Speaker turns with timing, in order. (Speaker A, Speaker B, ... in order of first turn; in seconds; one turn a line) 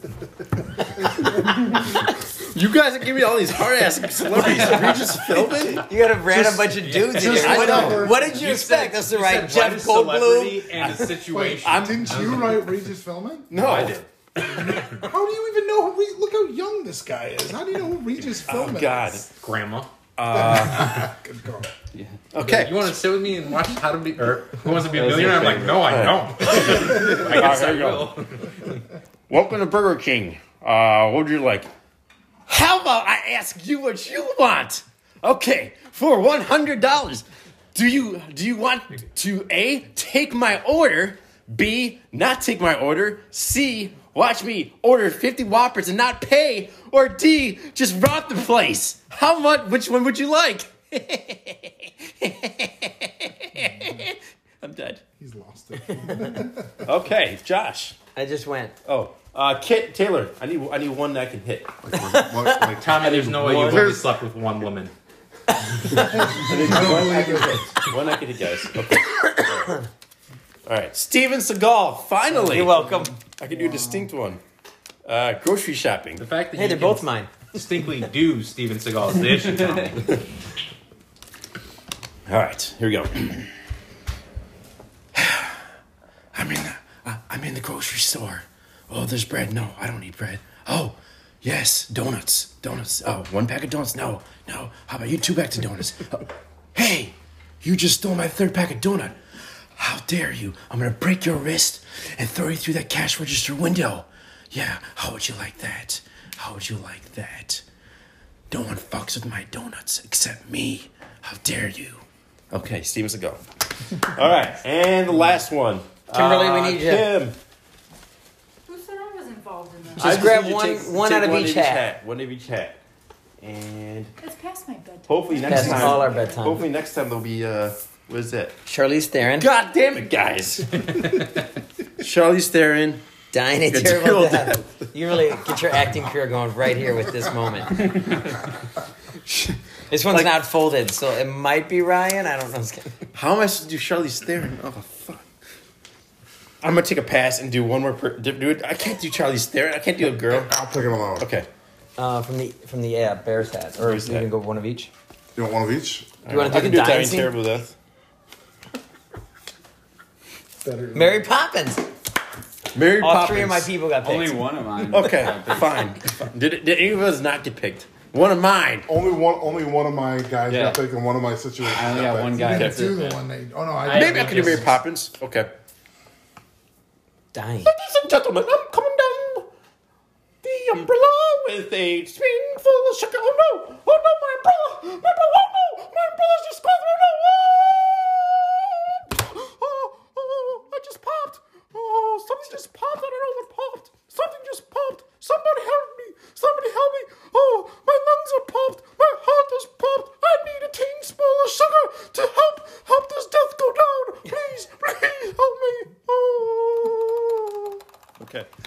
Speaker A: 1.3-6.5
Speaker B: 5.8-11.2
Speaker C: 6.8-12.7
Speaker A: 7.2-8.1
Speaker D: 7.2-8.2
Speaker D: 11.2-13.5
Speaker A: 11.6-12.6
Speaker A: 13.5-14.0
Speaker C: 13.5-14.8
Speaker D: 14.5-19.2
Speaker A: 18.5-19.2
Speaker C: 19.3-19.9
Speaker A: 20.2-21.1
Speaker D: 20.3-21.7
Speaker A: 22.3-22.9
Speaker C: 22.4-28.7
Speaker E: 25.0-25.9
Speaker A: 25.0-28.2
Speaker A: 29.3-31.7
Speaker A: 32.5-55.0
Speaker D: 55.2-56.9
Speaker A: 56.8-58.0
Speaker B: 58.1-58.8
Speaker A: 58.9-61.7
Speaker F: 61.8-64.0
Speaker B: 62.0-62.7
Speaker C: 62.8-64.9
Speaker A: 63.5-64.0
Speaker D: 65.9-67.8
Speaker A: 66.3-69.8
Speaker A: 70.7-72.8
Speaker B: 72.3-73.2
Speaker A: 73.4-74.4
Speaker A: 75.0-76.2
Speaker C: 76.2-80.2
Speaker B: 76.5-77.4
Speaker A: 82.3-83.5
Speaker A: 85.1-85.6
Speaker A: 86.3-107.6
Speaker A: 108.5-113.4
Speaker A: 113.9-117.3
Speaker B: 116.1-117.1
Speaker G: 118.7-120.3
Speaker A: 120.0-122.8
Speaker B: 120.0-121.8
Speaker A: 123.4-124.1
Speaker G: 124.2-126.6
Speaker A: 125.1-128.6
Speaker B: 125.5-126.6
Speaker B: 128.7-129.5
Speaker A: 129.4-131.3
Speaker C: 130.9-131.4
Speaker A: 132.0-133.0
Speaker B: 133.3-138.1
Speaker A: 133.7-134.9
Speaker B: 139.9-142.9
Speaker A: 143.1-145.2
Speaker A: 146.6-150.6
Speaker F: 150.3-151.3
Speaker A: 151.2-151.5
Speaker B: 152.0-154.9
Speaker A: 153.8-154.3
Speaker F: 155.3-156.2
Speaker A: 156.2-157.7
Speaker B: 156.3-157.3
Speaker D: 160.6-161.3
Speaker B: 160.9-161.9
Speaker A: 162.7-163.7
Speaker B: 163.0-164.5
Speaker E: 164.0-165.9
Speaker A: 164.9-168.9
Speaker F: 168.9-172.5
Speaker E: 171.7-173.2
Speaker D: 172.3-174.8
Speaker A: 172.5-173.0
Speaker C: 173.8-174.7
Speaker A: 173.9-175.5
Speaker B: 177.3-177.7
Speaker A: 177.6-179.5
Speaker A: 180.4-208.5